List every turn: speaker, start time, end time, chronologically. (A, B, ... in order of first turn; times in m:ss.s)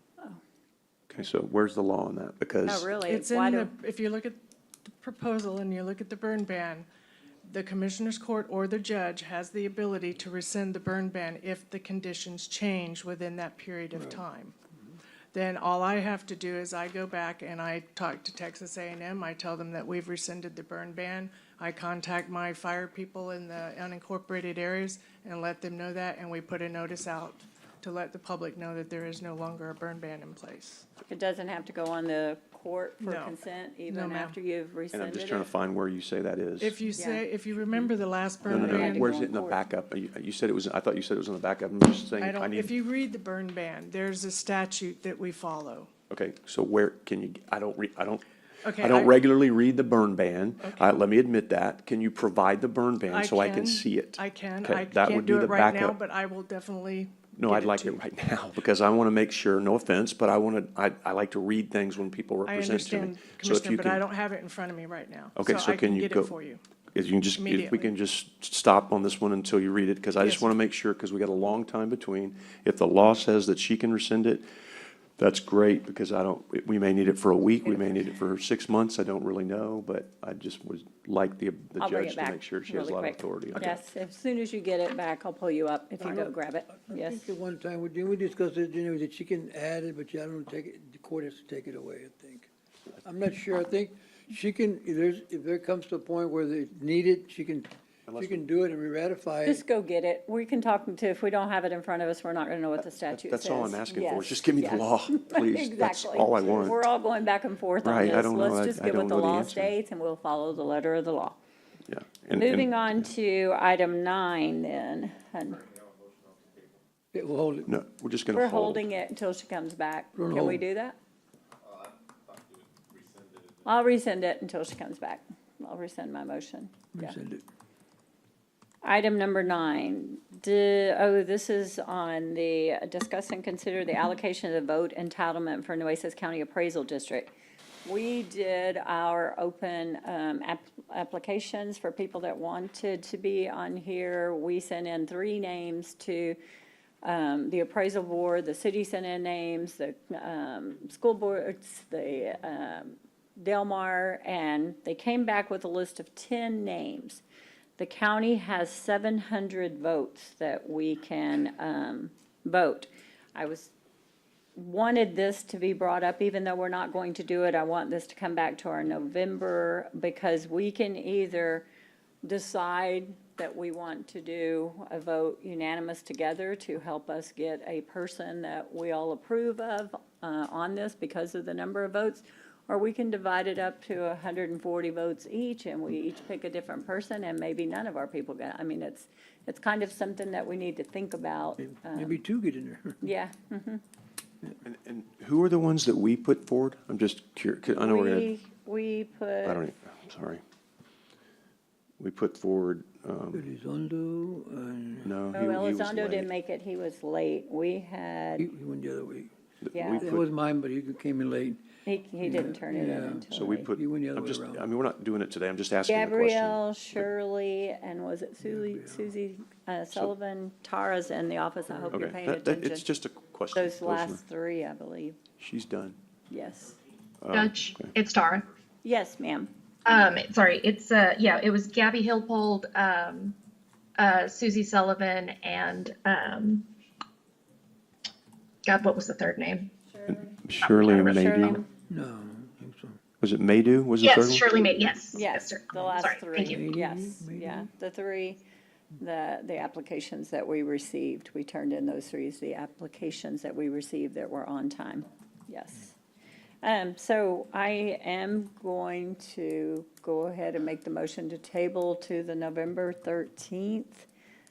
0:01.1-0:02.9 A
0:02.7-0:03.7 B
0:03.1-0:04.4 C
0:04.9-0:06.9 C
0:07.4-0:14.5 C
0:13.9-0:14.2 D
0:15.3-0:30.8 C
0:31.1-0:35.4 B
0:33.0-0:33.4 C
0:33.9-0:34.4 C
0:34.9-0:36.8 A
0:36.6-0:39.2 C
0:37.0-0:37.2 B
0:38.4-0:39.6 B
0:38.4-0:42.7 A
0:42.2-0:45.9 C
0:46.1-0:48.2 A
0:48.6-0:49.1 C
0:48.8-0:56.0 A
0:50.6-0:50.9 C
0:53.1-0:58.0 C
0:57.3-1:04.0 A
1:02.5-1:06.6 C
1:05.4-1:06.3 A
1:06.9-1:14.4 A
1:07.4-1:07.9 C
1:10.2-1:10.5 C
1:15.2-1:23.8 A
1:21.8-1:27.2 B
1:26.0-1:26.3 D
1:26.9-1:32.5 D
1:33.0-1:39.6 D
1:38.1-1:38.5 A
1:39.4-1:51.4 B
1:42.8-1:46.8 A
1:47.8-1:49.7 A
1:51.9-1:52.8 A
1:52.4-1:55.6 B
1:57.1-1:57.7 D
1:57.7-1:58.8 A
1:58.3-2:01.0 B
2:00.2-2:00.6 D
2:03.6-2:07.2 B
2:06.9-2:07.4 D
2:08.8-2:17.3 B
2:17.8-2:26.4 B
2:27.0-2:37.2 B
2:37.8-2:43.7 B
2:44.6-2:51.6 B
2:52.2-3:12.2 B
3:11.6-3:13.0 D
3:13.0-3:13.8 B
3:14.6-3:18.3 A
3:17.8-3:19.6 B
3:19.4-3:20.4 A
3:22.0-3:23.4 A
3:23.3-3:25.1 D
3:25.0-3:26.3 A
3:25.3-3:28.5 B
3:28.4-3:29.3 D
3:29.6-3:30.2 A
3:29.7-3:30.1 B
3:30.0-3:31.6 D
3:31.8-3:33.7 B
3:32.2-3:34.6 D
3:33.3-3:37.1 A
3:35.9-3:42.8 B
3:38.4-3:39.1 D
3:41.9-3:44.2 A
3:43.5-3:45.2 B
3:45.4-3:46.0 A
3:46.3-3:46.7 B
3:47.2-3:47.9 A
3:47.3-3:48.5 E
3:48.8-3:49.5 B
3:49.8-3:53.4 E
3:54.0-3:56.6 E
3:58.6-3:59.7 E
4:00.1-4:01.6 A
4:00.6-4:01.6 E
4:01.9-4:03.0 D
4:03.2-4:04.6 A
4:04.0-4:06.6 E
4:05.1-4:08.4 B
4:06.4-4:07.7 D
4:09.0-4:15.9 B
4:16.6-4:24.0 B